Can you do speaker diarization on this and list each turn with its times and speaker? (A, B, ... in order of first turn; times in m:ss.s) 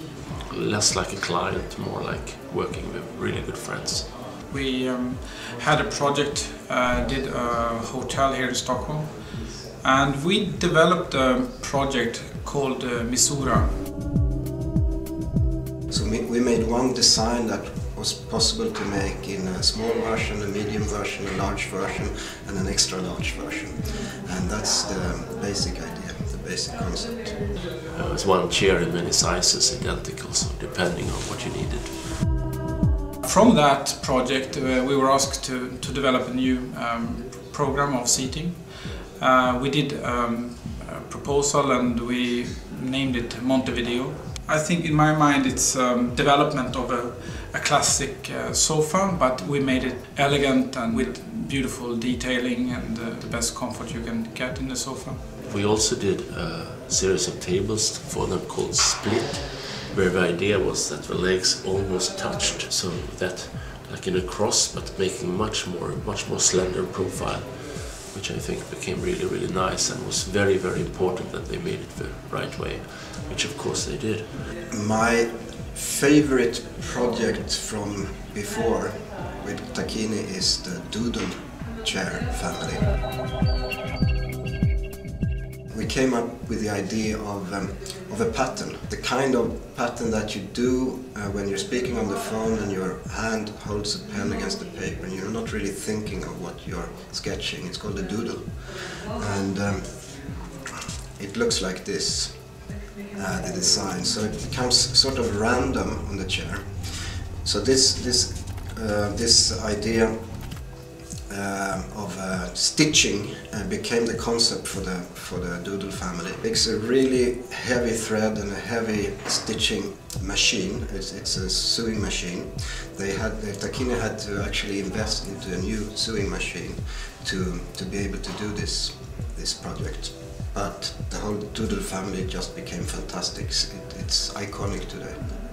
0:00.5-0:04.1 A
0:04.4-0:13.8 B
0:15.9-0:27.5 C
0:27.9-0:32.0 A
0:33.2-0:55.2 B
0:55.4-1:14.4 A
1:14.7-1:22.9 C
1:25.7-1:40.4 C
1:41.2-1:50.4 C
1:51.3-2:15.3 C